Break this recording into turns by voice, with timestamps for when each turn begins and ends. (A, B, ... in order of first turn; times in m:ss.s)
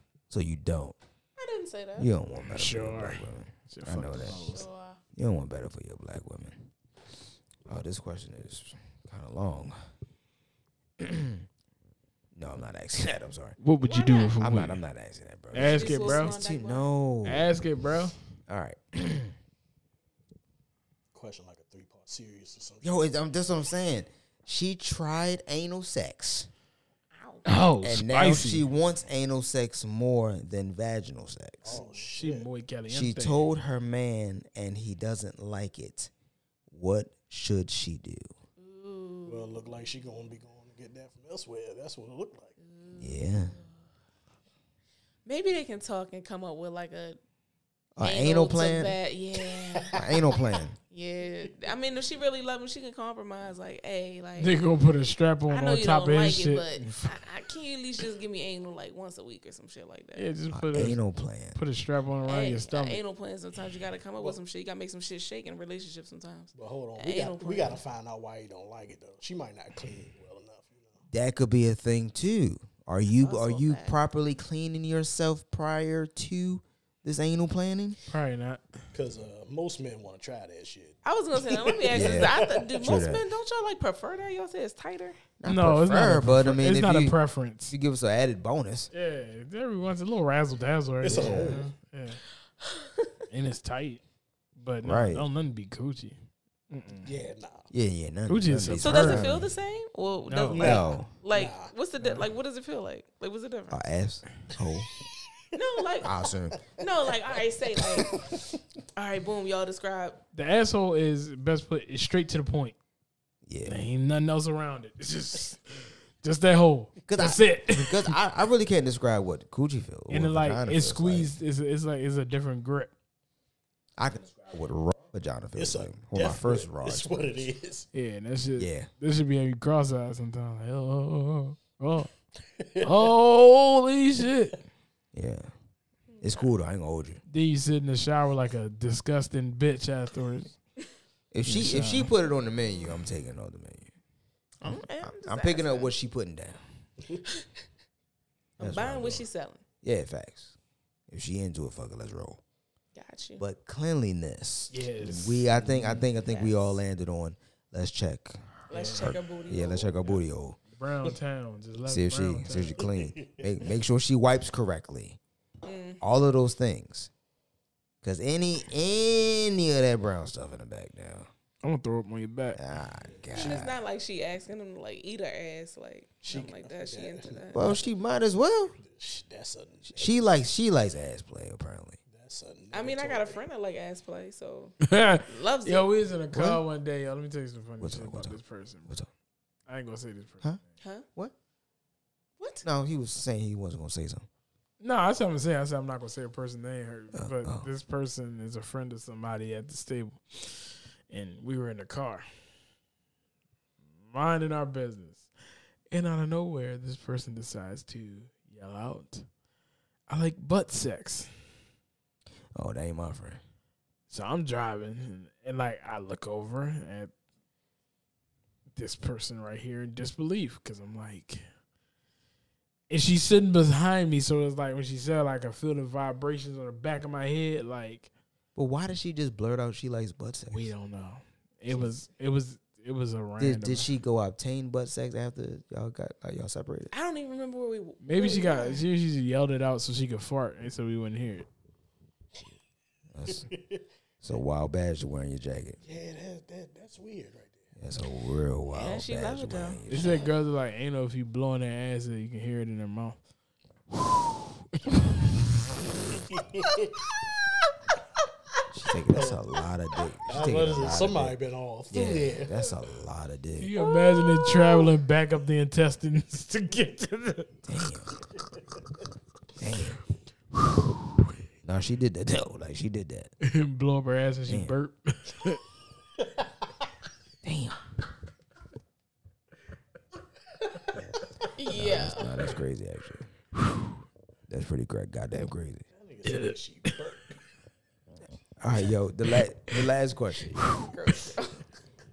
0:00.3-0:01.0 A
0:01.4-0:02.1 B
0:02.0-0:04.4 A
0:02.4-0:04.7 C
0:04.5-0:05.0 B
0:05.2-0:06.7 A
0:07.7-0:09.8 A
0:11.0-0:11.4 A
0:12.3-0:13.6 A
0:13.6-0:14.8 C
0:13.8-0:14.4 B
0:14.4-0:17.5 A
0:15.5-0:16.3 C
0:15.6-0:16.9 B
0:17.2-0:18.2 C
0:18.5-0:19.4 A
0:21.1-0:23.1 D
0:22.8-0:26.5 A
0:27.1-0:27.4 B
0:27.5-0:28.7 C
0:27.8-0:31.8 A
0:31.6-0:32.5 D
0:31.7-0:33.4 C
0:32.9-0:36.1 A
0:36.7-0:38.3 A
0:38.6-0:39.5 B
0:39.3-0:42.6 D
0:42.6-0:43.8 B
0:43.0-0:43.6 A
0:45.3-0:47.2 B
0:48.0-0:49.0 A
0:48.0-0:50.0 B
0:49.8-0:50.4 D
0:49.9-0:50.8 A
0:50.9-0:54.6 B
0:54.4-0:57.1 C
0:55.5-1:00.3 B
1:00.2-1:01.0 C
1:00.5-1:01.6 A
1:01.6-1:03.0 C
1:02.3-1:07.8 B
1:06.6-1:11.0 D
1:11.1-1:18.0 A
1:13.2-1:14.0 B
1:18.1-1:18.8 C
1:18.9-1:22.7 D
1:21.0-1:25.2 B
1:21.9-1:23.2 A
1:25.4-1:28.9 A
1:25.4-1:27.7 C
1:28.9-1:32.2 C
1:31.0-1:31.7 D
1:31.1-1:31.6 A
1:32.6-1:33.2 B
1:33.3-1:34.0 C
1:34.6-1:36.2 C
1:34.8-1:35.3 A
1:36.7-1:37.1 C
1:37.0-1:37.7 D
1:37.7-1:39.5 A
1:38.3-1:39.4 C
1:38.8-1:43.8 B
1:40.3-1:40.7 C
1:40.5-1:41.7 D
1:40.5-1:41.1 A
1:43.7-1:44.9 A
1:45.5-1:46.1 B
1:46.0-1:46.6 A
1:46.8-1:48.1 B
1:47.8-1:48.5 D
1:49.0-1:50.2 B
1:50.3-1:52.8 C
1:53.4-1:53.9 A
1:53.7-1:58.2 C
1:57.1-2:01.3 A
2:00.1-2:02.9 C
2:04.0-2:07.5 A
2:05.6-2:07.9 D
2:07.9-2:12.1 C
2:08.6-2:08.9 A
2:12.6-2:13.1 D
2:12.8-2:14.6 C
2:15.1-2:15.5 A
2:16.1-2:16.5 B
2:16.2-2:17.2 A
2:17.3-2:20.6 C
2:21.3-2:23.9 A
2:21.4-2:22.1 C
2:24.6-2:25.9 B
2:24.6-2:26.6 A
2:28.6-2:29.6 B
2:28.6-2:29.2 A
2:29.8-2:30.6 A
2:31.1-2:32.4 A
2:32.9-2:33.4 B
2:33.4-2:40.6 A
2:34.7-2:36.0 C
2:36.2-2:36.8 B
2:38.7-2:40.0 B
2:38.7-2:39.2 C
2:40.7-2:42.8 C
2:41.9-2:45.2 A
2:42.8-2:43.5 D
2:45.6-2:46.0 B
2:46.0-2:47.1 A
2:48.0-2:51.3 A
2:51.6-2:52.6 C
2:52.6-2:53.8 A
2:53.3-2:53.6 D
2:53.4-2:57.7 B
2:56.2-2:57.9 D
2:57.5-2:58.8 A
2:58.8-3:00.2 D
2:59.9-3:02.0 A
3:02.1-3:03.4 D
3:02.7-3:04.8 B
3:04.8-3:09.0 C
3:05.3-3:05.9 B
3:06.3-3:06.6 A
3:07.8-3:09.1 A
3:09.7-3:10.6 C
3:10.8-3:11.1 B
3:12.4-3:12.6 B
3:12.6-3:14.3 A
3:14.8-3:22.3 C
3:17.1-3:17.7 A
3:24.0-3:25.3 C
3:25.9-3:29.3 C
3:30.1-3:31.3 C
3:32.6-3:33.4 A
3:34.1-3:37.1 C
3:38.8-3:41.4 C
3:42.9-3:48.1 C
3:48.6-3:50.7 A
3:50.5-3:53.9 C
3:53.4-3:56.9 A
3:56.9-3:58.8 B
3:58.0-4:01.5 C
4:03.1-4:03.5 A
4:03.3-4:03.8 D
4:04.2-4:05.8 A
4:05.8-4:07.7 D
4:07.8-4:10.3 A
4:08.7-4:09.8 B
4:09.9-4:13.2 C
4:13.9-4:14.4 C
4:16.1-4:16.9 D
4:18.7-4:21.4 A
4:19.1-4:19.4 D
4:20.3-4:22.7 D
4:21.9-4:23.7 A
4:23.6-4:27.5 C
4:23.8-4:24.9 B
4:27.6-4:28.2 A
4:29.6-4:30.0 A
4:31.6-4:33.3 A
4:33.4-4:35.6 C
4:34.5-4:34.8 A
4:36.2-4:36.5 D
4:37.4-4:37.8 A
4:41.0-4:43.3 A
4:41.6-4:42.3 B
4:44.5-4:45.9 A
4:45.9-4:47.4 D
4:46.2-4:46.6 C
4:48.6-4:50.8 A
4:50.6-4:50.9 C
4:50.8-4:51.6 B